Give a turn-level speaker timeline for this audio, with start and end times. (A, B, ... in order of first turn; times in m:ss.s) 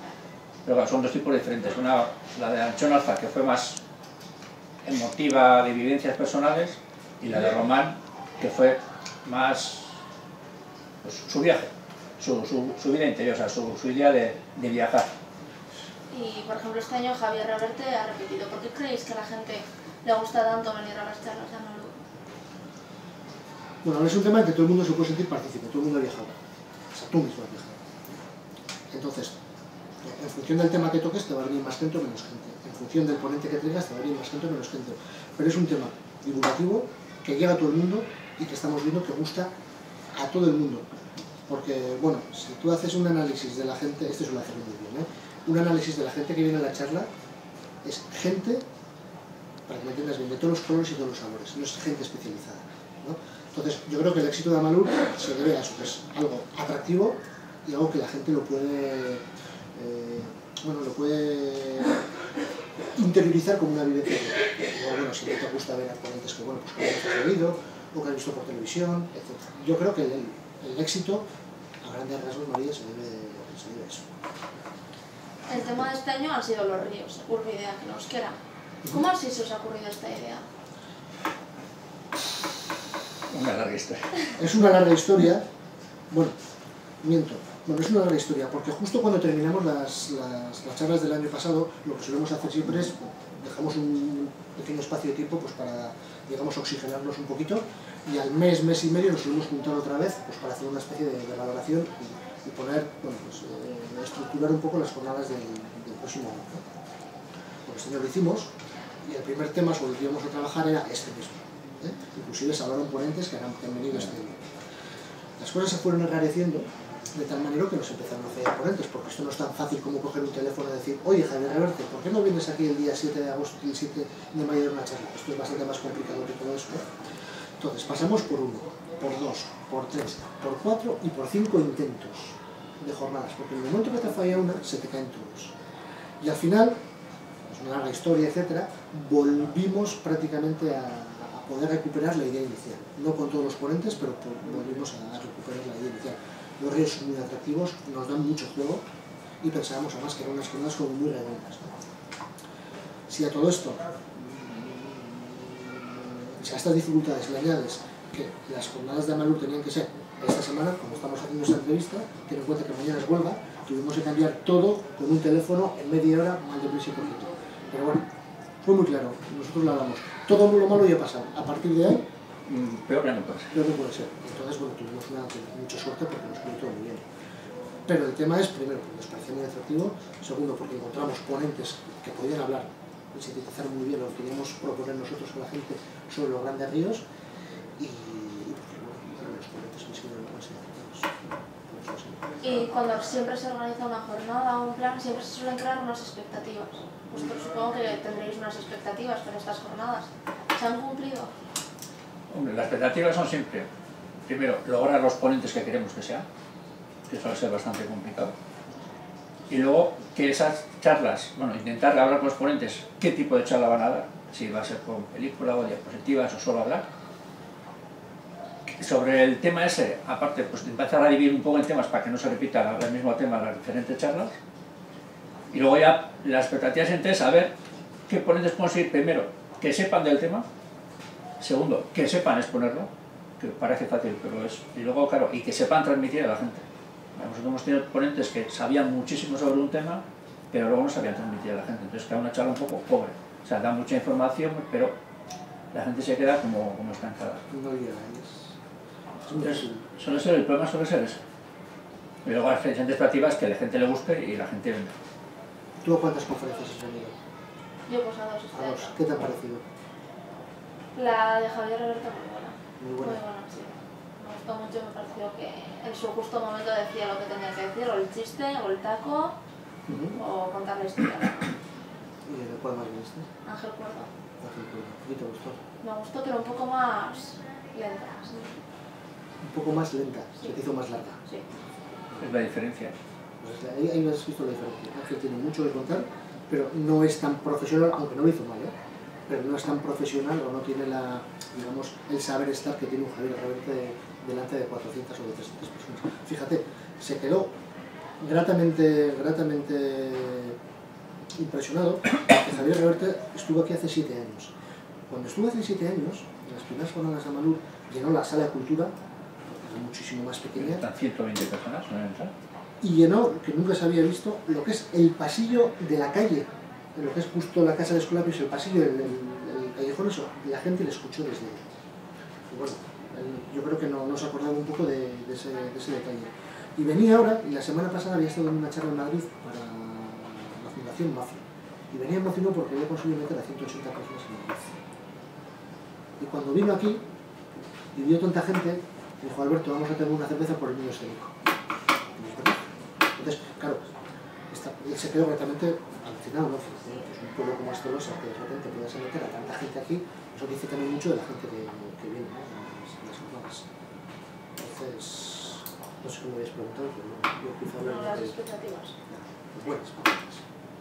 0:00.6-0:03.8 A
0:04.8-0:09.9 A
0:11.0-0:15.1 A
0:16.1-0:21.9 B
0:23.8-0:26.4 C
0:26.9-0:28.2 C
0:28.9-0:29.3 C
0:30.0-0:39.5 C
0:40.2-0:40.9 C
0:41.5-0:47.1 C
0:47.8-0:48.6 C
0:49.7-1:02.1 C
1:03.0-1:11.2 C
1:11.8-1:14.1 C
1:15.5-1:20.4 B
1:23.3-1:24.1 A
1:24.4-1:25.5 C
1:26.1-1:26.4 C
1:27.0-1:46.6 C
1:47.6-1:48.5 C
1:49.0-1:54.4 C
1:55.4-2:06.8 C
2:07.6-2:15.5 C
2:16.2-2:16.8 C
2:17.4-2:28.8 C
2:29.4-2:31.7 C
2:33.1-2:48.0 C
2:48.6-2:52.0 C
2:52.5-2:53.5 A
2:53.5-2:57.1 C
2:57.9-3:07.0 C
3:07.8-3:12.4 C
3:12.4-3:21.3 B
3:22.3-3:23.7 A
3:24.2-3:26.3 A
3:27.1-3:28.4 A
3:29.5-3:36.9 A
3:38.7-3:44.3 A
3:45.5-3:47.5 A
3:48.1-3:50.5 A
3:51.4-4:05.0 A
4:05.7-4:07.4 A
4:07.5-4:08.5 C
4:09.2-4:09.9 C
4:09.3-4:11.2 A
4:12.2-4:15.0 A
4:15.8-4:17.2 C
4:17.9-4:19.0 B
4:18.5-4:19.6 C
4:21.0-4:29.4 B
4:22.8-4:23.2 C
4:29.9-4:30.2 C
4:30.2-4:31.5 B
4:32.3-4:33.3 C
4:33.4-4:34.1 B
4:34.4-4:35.6 C
4:35.8-4:38.6 B
4:39.4-4:41.2 C
4:42.2-4:42.9 A
4:43.4-4:48.7 C
4:49.3-4:57.5 C
4:58.2-5:00.6 C
5:01.4-5:04.5 C
5:05.1-5:08.9 C
5:09.5-5:10.9 C
5:10.6-5:12.3 A
5:12.8-5:21.6 C
5:22.5-5:34.8 C
5:36.2-5:37.0 C
5:37.9-5:41.3 C
5:42.2-5:42.6 C
5:43.2-5:43.8 C
5:44.5-5:53.7 C
5:54.6-5:58.4 C
5:57.8-5:59.0 B
5:59.1-6:00.4 C